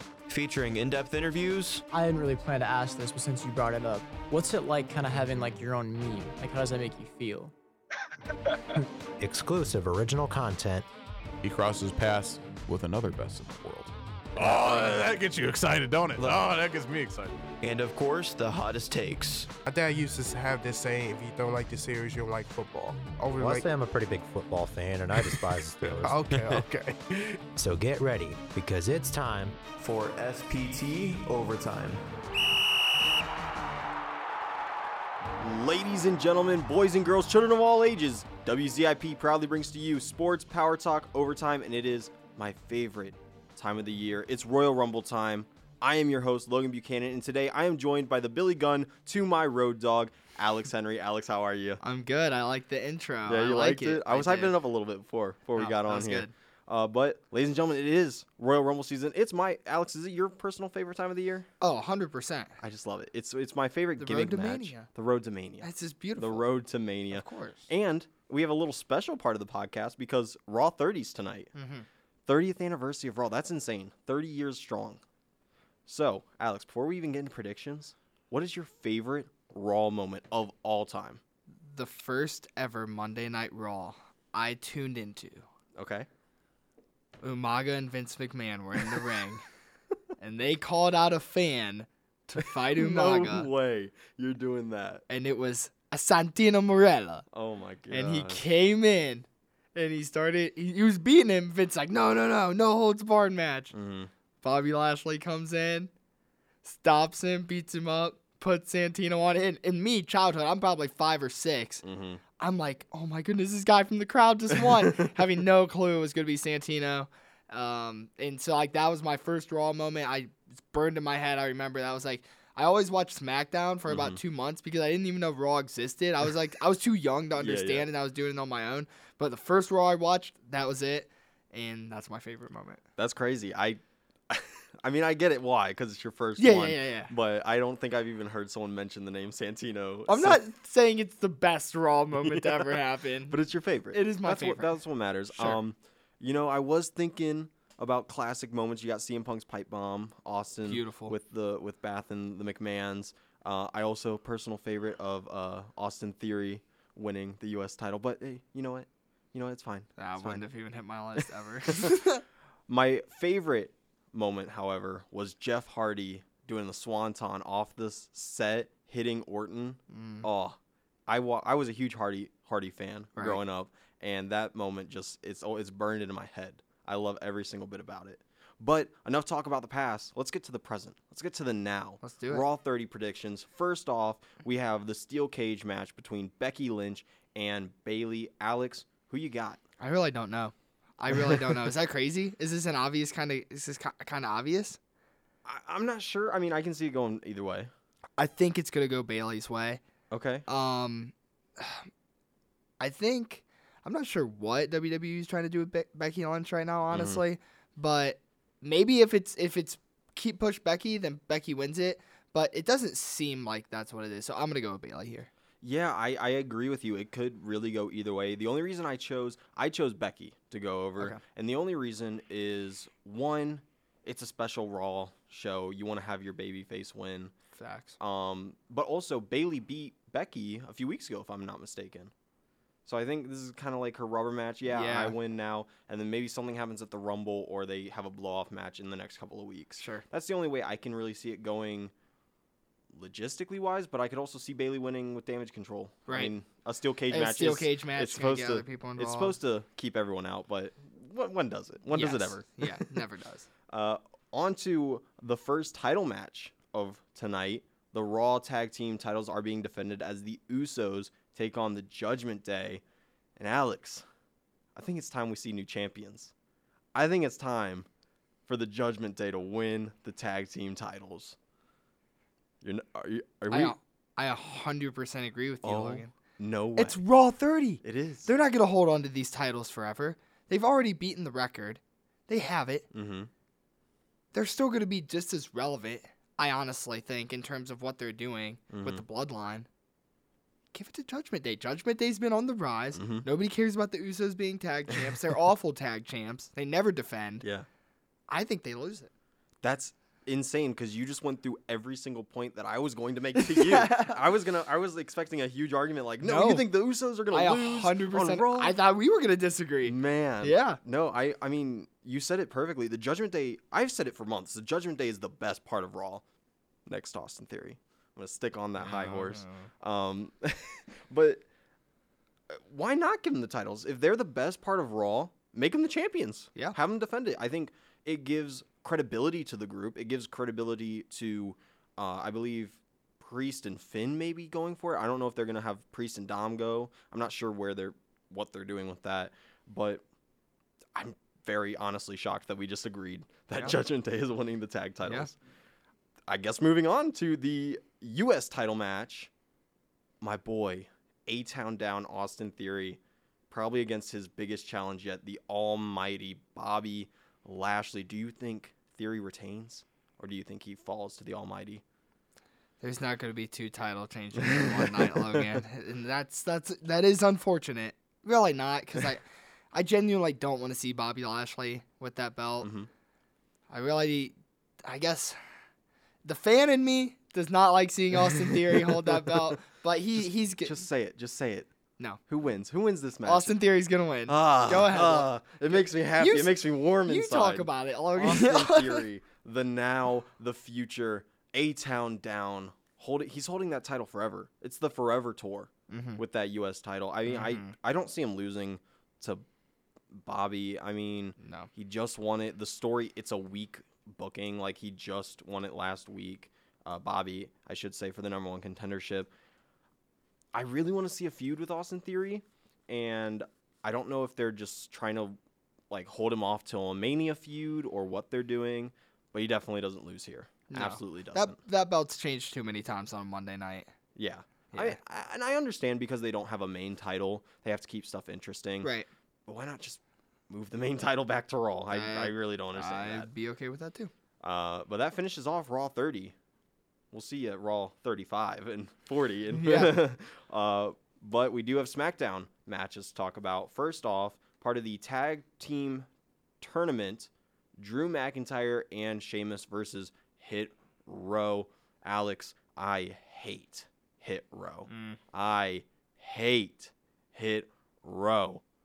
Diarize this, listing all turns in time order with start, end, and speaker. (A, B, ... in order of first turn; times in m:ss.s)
0:00.3-0:01.8 A
0:01.9-0:07.5 B
0:09.2-0:10.8 C
0:11.4-0:17.4 D
0:14.4-0:15.1 A
0:16.2-0:16.4 A
0:17.6-0:19.5 A
0:19.6-0:23.7 E
0:23.4-0:26.6 C
0:26.0-0:27.1 E
0:27.6-0:29.6 C
0:29.8-0:32.0 A
0:35.4-0:51.8 F
0:51.8-0:54.6 G
0:53.2-1:01.5 F
0:55.6-0:56.3 G
1:01.6-1:02.6 G
1:02.6-1:11.5 F
1:04.0-1:04.9 G
1:05.6-1:06.4 G
1:07.1-1:07.7 G
1:11.5-1:11.8 G
1:12.2-1:15.0 F
1:15.8-1:21.2 F
1:21.7-1:25.4 G
1:25.8-1:26.1 F
1:27.2-1:29.4 G
1:30.2-1:33.5 G
1:32.7-1:35.0 F
1:35.1-1:37.2 G
1:37.3-1:38.5 F
1:37.9-1:43.7 G
1:43.7-1:44.1 F
1:44.4-1:45.9 G
1:46.6-1:51.8 G
1:51.8-1:52.2 F
1:52.4-2:12.8 G
2:03.9-2:04.2 F
2:07.4-2:07.9 F
2:13.0-2:20.4 F
2:16.4-2:17.1 G
2:20.1-2:23.4 G
2:22.2-2:40.4 F
2:23.9-2:24.7 G
2:25.3-2:25.6 G
2:30.6-2:31.1 G
2:40.0-2:42.2 G
2:41.6-2:42.0 F
2:42.7-3:09.6 F
2:49.9-2:50.3 G
3:02.0-3:02.4 G
3:09.8-3:14.8 G
3:11.1-3:11.7 F
3:15.4-3:17.7 F
3:18.2-3:19.8 G
3:20.1-3:20.4 F
3:20.5-3:21.9 G
3:22.8-3:35.3 G
3:26.9-3:27.2 F
3:35.6-3:47.3 F
3:47.5-3:48.0 G
3:48.0-3:52.1 F
3:52.8-4:01.9 F
3:54.7-3:55.1 G
3:59.8-4:00.0 G
4:02.9-4:12.9 F
4:06.1-4:06.3 G
4:07.1-4:09.4 G
4:11.9-4:13.5 G
4:13.7-4:22.8 F
4:23.4-4:24.0 F
4:24.7-4:26.3 F
4:26.9-4:27.9 F
4:28.5-4:31.4 F
4:32.6-4:33.7 F
4:33.5-4:36.1 G
4:35.6-4:37.0 F
4:36.8-4:42.9 G
4:37.8-4:38.3 F
4:42.9-4:43.3 F
4:44.3-4:49.7 G
4:48.7-4:49.0 F
4:50.7-4:57.4 G
4:52.9-4:53.2 F
4:57.4-4:57.7 F
4:58.3-4:59.1 G
4:59.6-5:08.8 F
5:03.3-5:04.2 G
5:06.2-5:06.7 G
5:07.3-5:10.8 G
5:09.8-5:16.2 F
5:16.8-5:21.4 F
5:18.8-5:19.7 G
5:22.5-5:40.0 F
5:40.9-5:45.4 F
5:45.0-5:45.3 G
5:46.3-5:49.3 F
5:50.2-5:53.0 F
5:53.5-6:01.8 F
6:02.8-6:12.7 G
6:04.4-6:05.6 F
6:12.6-6:12.9 F
6:13.7-6:15.4 G
6:16.2-6:20.8 G
6:18.7-6:19.5 F
6:20.2-6:21.7 F
6:22.3-6:23.6 F
6:23.2-6:29.0 G
6:24.3-6:39.4 F
6:35.9-6:36.2 G
6:37.3-6:37.7 G
6:40.1-6:49.3 F
6:41.4-6:41.7 G
6:50.5-6:55.4 F
6:55.9-7:01.6 F
7:00.7-7:03.9 G
7:04.2-7:08.9 F
7:04.7-7:05.0 G
7:08.8-7:09.1 G
7:09.4-7:13.3 F
7:11.9-7:14.1 G
7:14.4-7:16.3 F
7:17.1-7:26.1 F
7:19.5-7:20.0 G
7:26.6-7:38.6 F
7:34.9-7:35.2 G